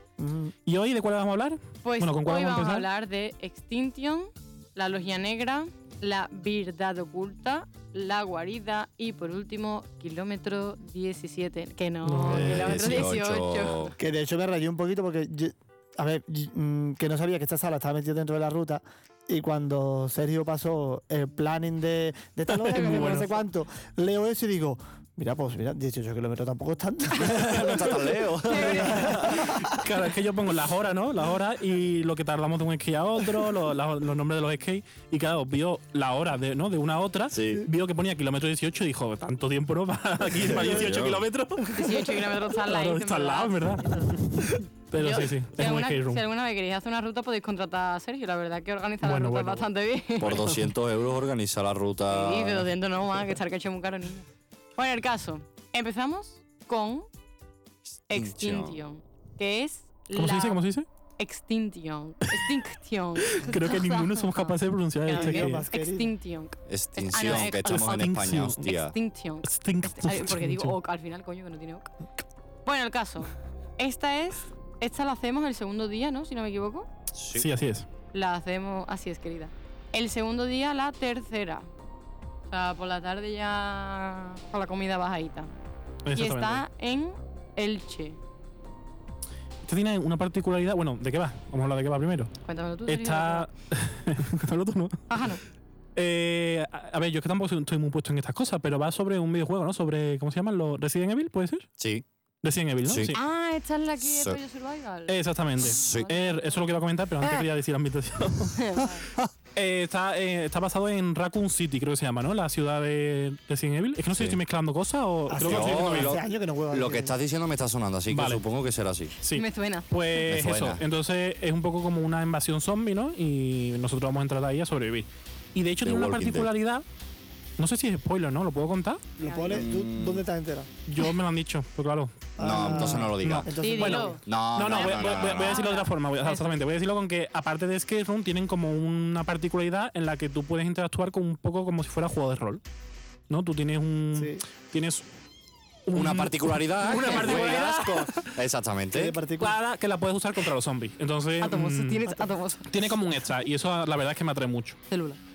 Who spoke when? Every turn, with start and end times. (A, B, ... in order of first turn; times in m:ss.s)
0:00.2-0:00.5 A
0:00.7-0:02.9 B
0:01.8-0:14.0 C
0:12.0-0:13.2 B
0:12.3-0:13.9 D
0:14.0-0:27.9 A
0:22.5-0:23.4 B
0:27.2-0:29.6 D
0:27.6-0:28.0 B
0:28.4-0:29.4 C
0:28.5-0:46.2 B
0:29.1-0:29.4 A
0:37.3-0:37.6 D
0:40.4-0:41.2 D
0:41.7-0:50.4 C
0:49.0-0:49.7 B
0:50.2-0:52.7 D
0:50.2-0:50.7 B
0:52.1-0:57.1 C
0:58.1-1:00.6 C
0:58.1-0:58.8 D
1:00.2-1:00.9 B
1:01.2-1:11.9 C
1:03.3-1:05.6 B
1:05.1-1:06.1 A
1:06.7-1:09.0 D
1:07.1-1:08.7 B
1:09.4-1:10.8 B
1:12.7-1:16.9 C
1:17.1-1:17.5 D
1:17.3-1:17.9 B
1:18.1-1:21.7 C
1:22.5-1:25.5 C
1:26.1-1:26.6 B
1:26.1-1:28.2 C
1:29.6-1:32.3 B
1:32.4-1:33.5 C
1:32.9-1:35.1 B
1:35.1-1:35.4 C
1:36.0-1:41.7 B
1:41.8-1:42.0 D
1:42.4-1:43.2 B
1:42.9-1:43.2 D
1:43.1-1:46.7 C
1:44.0-1:44.4 D
1:45.1-1:48.6 B
1:45.6-1:46.1 D
1:48.5-1:49.1 C
1:49.6-1:56.2 B
1:54.1-1:54.4 D
1:55.3-1:57.2 A
1:55.4-1:59.2 D
1:58.1-1:58.4 B
1:59.2-2:06.8 B
1:59.3-1:59.9 C
2:00.3-2:00.8 D
2:05.8-2:06.5 D
2:07.6-2:09.0 B
2:09.2-2:10.7 A
2:09.2-2:09.6 C
2:09.5-2:10.2 D
2:10.9-2:22.6 B
2:12.4-2:14.2 A
2:12.4-2:13.5 D
2:13.6-2:16.5 C
2:14.2-2:15.6 D
2:23.3-2:25.0 B
2:24.1-2:24.4 A
2:25.9-2:28.4 B
2:25.9-2:29.2 D
2:28.9-2:29.6 A
2:29.4-2:32.1 B
2:31.4-2:32.8 C
2:32.7-2:34.8 B
2:34.9-2:35.2 C